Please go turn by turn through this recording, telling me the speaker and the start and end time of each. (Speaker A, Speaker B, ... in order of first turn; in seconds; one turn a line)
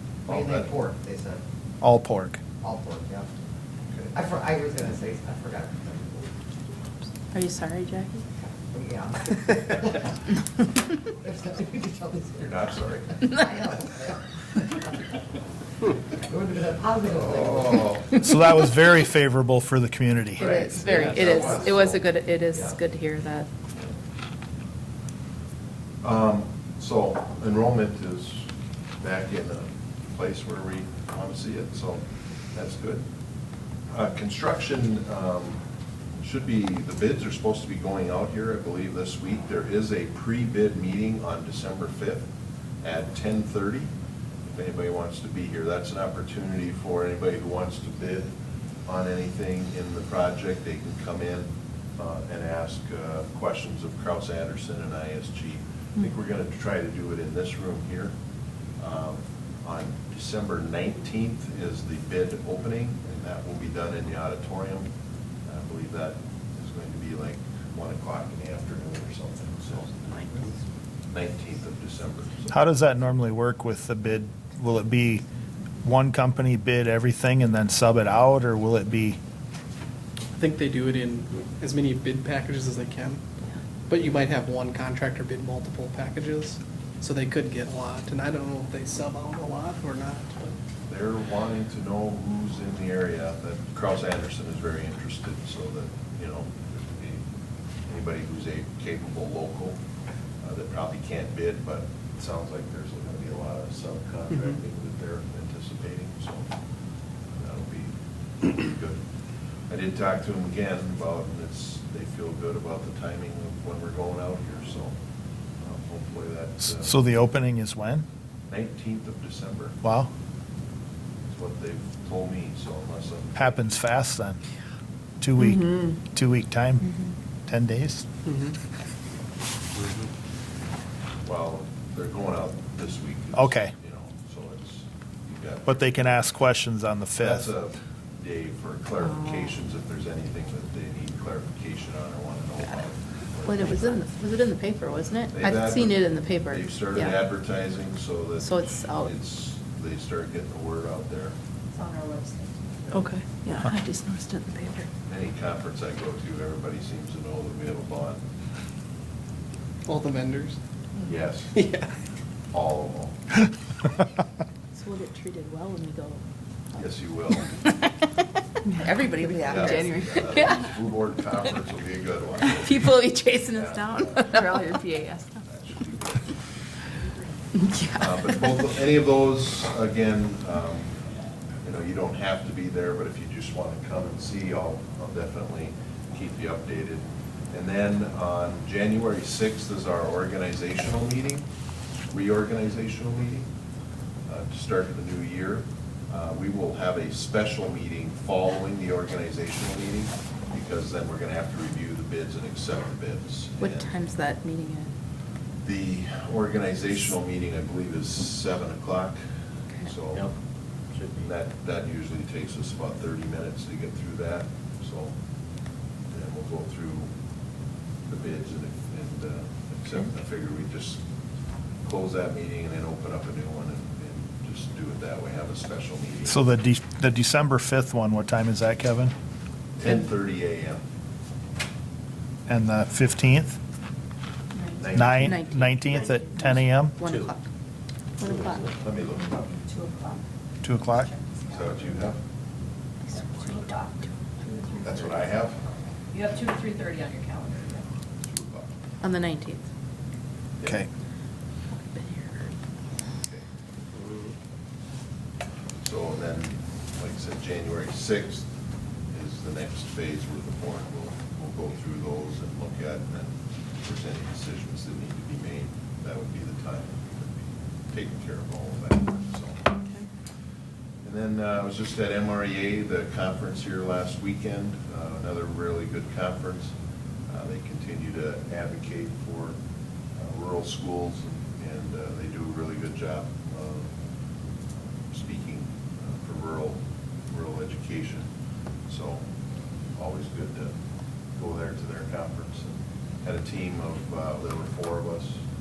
Speaker A: 0.3-0.7
Speaker B: 0.3-1.4
Speaker C: 1.8-2.4
Speaker B: 2.6-3.4
Speaker B: 4.1-6.4
Speaker D: 7.3-8.2
Speaker B: 8.7-10.1
Speaker B: 11.2-14.8
Speaker A: 12.4-13.4
Speaker B: 16.2-18.1
Speaker A: 17.2-18.2
Speaker C: 18.1-20.5
Speaker D: 20.4-23.5
Speaker A: 20.4-22.0
Speaker B: 20.6-21.6
Speaker A: 26.0-33.0
Speaker A: 33.9-35.6
Speaker A: 36.2-42.3
Speaker A: 42.8-43.9
Speaker A: 44.5-48.3
Speaker A: 48.9-58.1
Speaker A: 58.8-64.9
Speaker A: 65.5-70.0
Speaker A: 71.1-72.5
Speaker C: 72.5-75.2
Speaker C: 75.8-79.2
Speaker E: 80.3-83.2
Speaker E: 83.9-90.5
Speaker A: 90.9-97.2
Speaker A: 97.9-99.8
Speaker A: 100.4-106.5
Speaker A: 107.3-109.0
Speaker A: 109.7-115.0
Speaker A: 115.6-116.9
Speaker C: 116.6-118.0
Speaker A: 118.5-119.8
Speaker C: 119.8-120.1
Speaker A: 121.3-123.8
Speaker C: 123.4-124.4
Speaker C: 125.2-126.9
Speaker D: 126.8-127.1
Speaker C: 127.5-128.1
Speaker E: 128.3-128.5
Speaker A: 131.2-136.2
Speaker C: 133.3-133.7
Speaker C: 135.7-137.5
Speaker A: 137.2-144.0
Speaker D: 143.4-147.2
Speaker A: 145.3-151.3
Speaker D: 148.4-149.1
Speaker F: 151.8-152.4
Speaker D: 152.9-154.9
Speaker A: 155.1-158.2
Speaker E: 159.9-160.6
Speaker A: 161.0-161.6
Speaker E: 161.6-161.9
Speaker A: 162.5-163.2
Speaker D: 164.7-166.2
Speaker A: 166.8-167.6
Speaker D: 167.3-167.7
Speaker D: 168.6-170.7
Speaker B: 169.0-169.9
Speaker A: 169.4-176.4
Speaker D: 172.6-175.3
Speaker D: 177.5-178.4
Speaker A: 177.9-180.9
Speaker A: 181.6-191.5
Speaker A: 192.1-193.5
Speaker A: 194.3-203.9
Speaker D: 203.6-204.9
Speaker A: 205.6-209.2
Speaker A: 209.8-210.3
Speaker A: 211.2-215.1
Speaker A: 216.1-217.1
Speaker A: 218.1-221.0
Speaker A: 221.8-226.4
Speaker C: 226.2-229.1
Speaker A: 229.8-230.8
Speaker C: 232.5-233.6
Speaker D: 234.6-237.5
Speaker A: 234.8-235.6
Speaker C: 234.9-237.0
Speaker D: 238.2-238.7
Speaker A: 238.8-239.5
Speaker C: 240.6-241.1
Speaker A: 241.5-242.2
Speaker D: 243.1-244.1
Speaker A: 244.8-245.6
Speaker F: 246.1-247.8
Speaker A: 248.2-248.7
Speaker D: 249.0-249.7
Speaker D: 251.7-252.5
Speaker A: 253.2-253.4
Speaker A: 255.8-258.5
Speaker A: 259.1-269.7
Speaker A: 271.0-276.8
Speaker A: 277.3-279.6
Speaker A: 280.2-283.9
Speaker A: 285.0-288.3
Speaker A: 288.9-289.2
Speaker A: 290.0-290.8
Speaker A: 291.4-295.4